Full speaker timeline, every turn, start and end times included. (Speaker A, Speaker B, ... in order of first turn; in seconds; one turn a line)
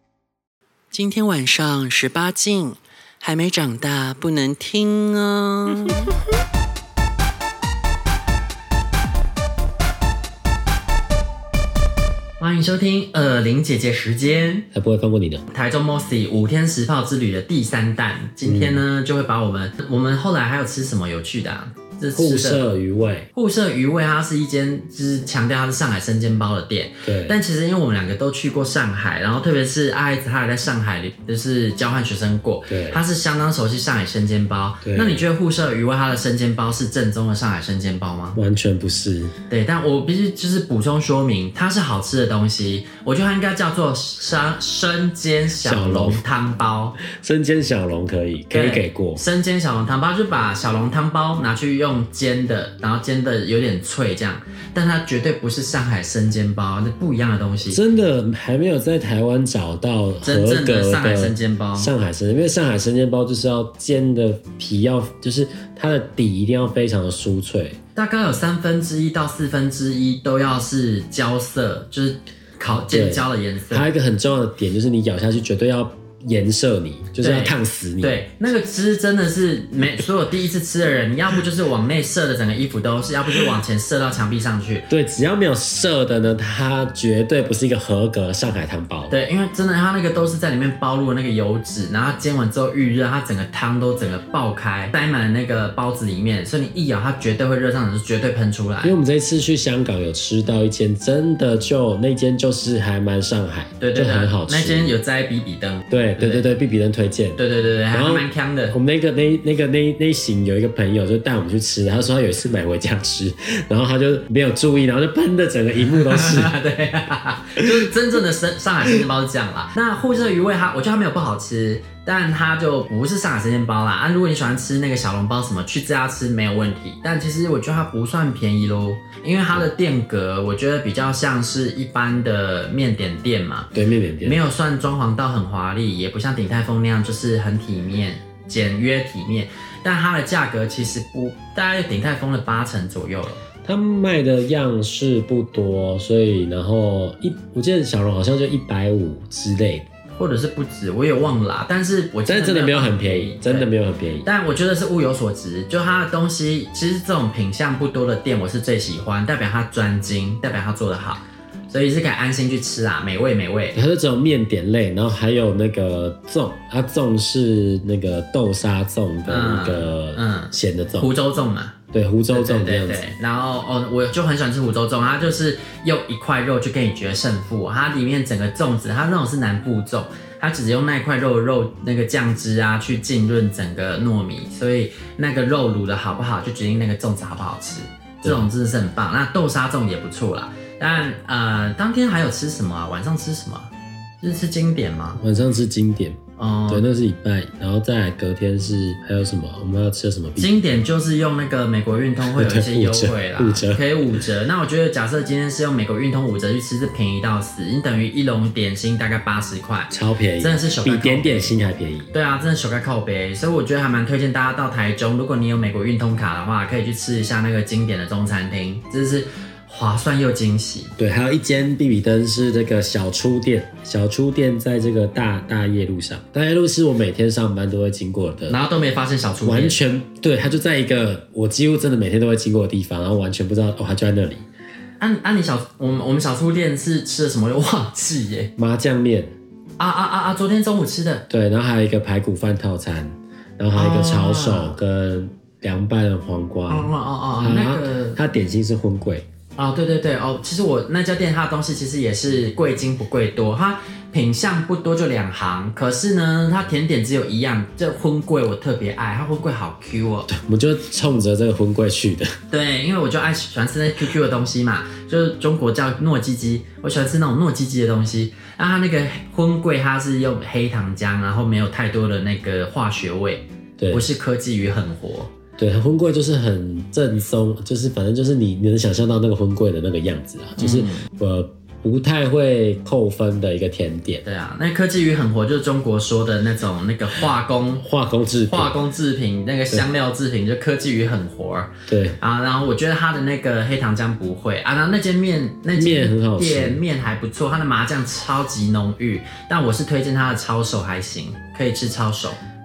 Speaker A: 0.9-6.1
Speaker A: 12.4-14.7
Speaker B: 14.7-15.4
Speaker A: 15.5-22.6
Speaker B: 18.4-18.8
Speaker B: 22.1-23.3
Speaker A: 23.3-38.4
Speaker B: 27.0-27.4
Speaker B: 32.7-33.0
Speaker B: 34.8-35.2
Speaker B: 38.4-39.3
Speaker A: 39.5-47.0
Speaker B: 45.6-46.2
Speaker B: 47.0-49.2
Speaker A: 48.5-57.8
Speaker B: 57.6-67.8
Speaker A: 60.2-61.9
Speaker A: 68.0-73.9
Speaker B: 72.9-78.2
Speaker A: 77.2-84.9
Speaker B: 84.9-89.1
Speaker A: 89.1-98.9
Speaker B: 98.8-105.0
Speaker A: 103.8-106.5
Speaker B: 105.9-116.5
Speaker A: 107.4-108.8
Speaker A: 115.9-133.7
Speaker B: 117.6-117.9
Speaker B: 133.7-134.4
Speaker A: 134.2-143.4
Speaker B: 143.6-149.8
Speaker A: 150.2-153.7
Speaker B: 152.3-154.3
Speaker A: 154.2-163.8
Speaker B: 163.7-171.1
Speaker A: 169.3-171.8
Speaker B: 171.9-173.1
Speaker A: 172.3-195.2
Speaker B: 188.2-188.5
Speaker B: 195.2-200.6
Speaker A: 196.4-196.8
Speaker A: 200.4-211.5
Speaker B: 202.2-204.2
Speaker B: 209.9-212.1
Speaker A: 212.1-220.9
Speaker B: 221.0-228.6
Speaker A: 228.5-229.8
Speaker B: 229.4-234.4
Speaker A: 235.0-238.5
Speaker B: 238.6-239.3
Speaker A: 239.8-241.2
Speaker B: 241.3-249.3
Speaker A: 243.7-244.8
Speaker A: 246.7-248.2
Speaker A: 249.6-260.3
Speaker B: 260.3-262.3
Speaker A: 262.5-275.3
Speaker B: 273.8-274.0
Speaker B: 275.6-284.2
Speaker A: 280.6-281.1
Speaker A: 284.2-287.8
Speaker B: 287.8-288.7
Speaker A: 288.5-302.4
Speaker B: 291.9-292.2
Speaker B: 295.7-296.8